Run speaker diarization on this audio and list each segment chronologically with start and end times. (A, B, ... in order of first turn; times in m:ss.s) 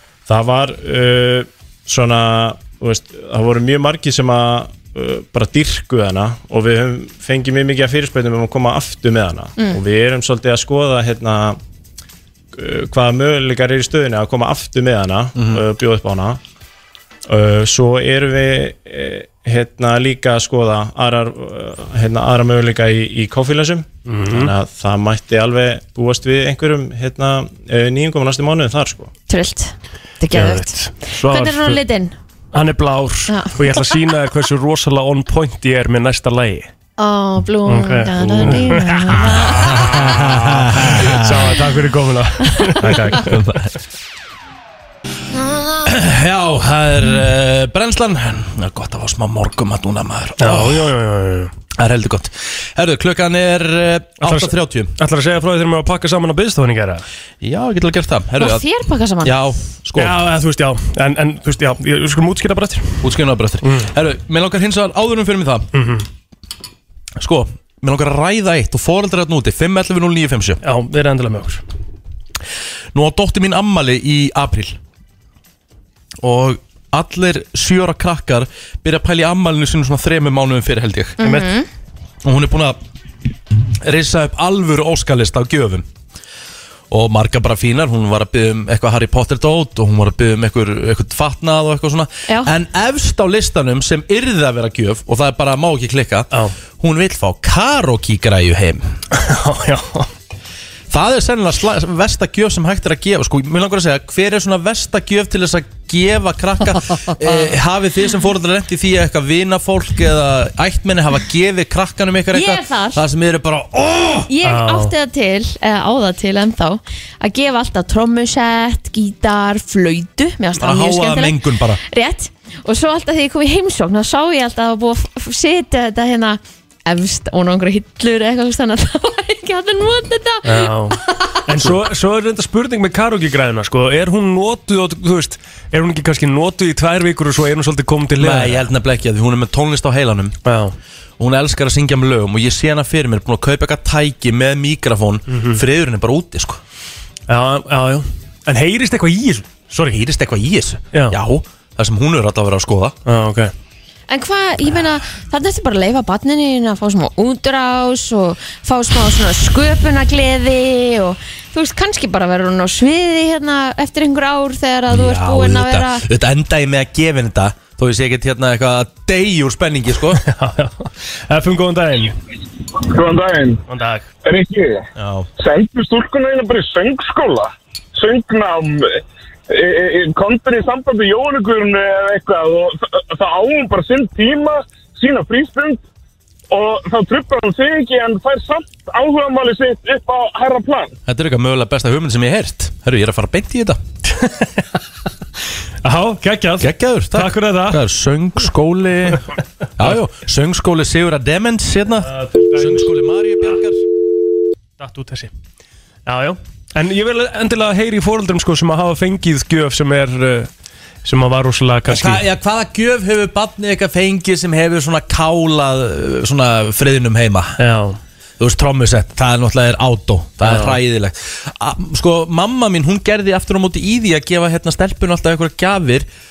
0:00.3-0:11.6 A
0:12.5-0:16.4 A
0:15.4-0:15.6 B
0:17.3-0:29.1 A
0:24.1-0:24.5 C
0:29.3-0:32.1 D
0:30.3-0:31.8 C
0:32.5-0:36.7 C
0:33.3-0:33.6 D
0:37.0-0:39.9 D
0:37.6-0:43.4 C
0:39.7-0:41.5 B
0:42.8-0:43.7 B
0:45.4-0:45.8 D
0:45.8-0:50.9 B
0:50.4-0:51.5 C
0:51.7-0:54.9 B
0:54.2-0:57.0 C
0:57.4-0:58.6 B
0:58.4-0:59.4 D
0:59.2-1:00.2 B
0:59.9-1:03.0 C
1:03.0-1:05.7 B
1:03.6-1:03.9 C
1:05.7-1:06.1 C
1:07.2-1:10.6 B
1:10.6-1:11.6 C
1:12.9-1:14.8 B
1:16.2-1:21.2 B
1:21.2-1:21.6 D
1:21.2-1:21.5 C
1:22.2-1:22.8 B
1:23.8-1:25.8 B
1:26.9-1:39.0 B
1:39.1-1:40.1 C
1:40.9-1:54.3 B
1:52.3-1:53.0 D
1:54.3-2:11.3 D
1:54.4-1:54.9 C
2:00.6-2:01.8 B
2:10.4-2:18.7 C
2:18.2-2:20.4 B
2:20.4-2:20.7 C
2:21.2-2:26.6 B
2:25.3-2:25.6 C
2:27.3-2:29.8 C
2:29.7-2:33.0 B
2:30.9-2:31.2 C
2:33.0-2:33.5 C
2:34.1-2:46.0 D
2:44.9-2:50.2 B
2:50.2-2:52.2 C
2:52.8-2:53.6 E
2:53.7-2:54.1 C
2:54.2-2:54.8 E
2:55.0-2:55.3 B
2:55.4-3:05.8 E
3:06.5-3:10.9 E
3:11.0-3:13.8 B
3:14.1-3:14.6 C
3:15.8-3:17.8 C
3:16.6-3:19.2 B
3:19.8-3:23.8 B
3:22.1-3:22.9 C
3:24.8-3:25.3 C
3:26.0-3:30.5 C
3:31.0-3:32.2 C
3:31.9-3:37.6 B
3:37.6-3:38.0 C
3:38.4-3:46.1 B
3:40.4-3:40.8 C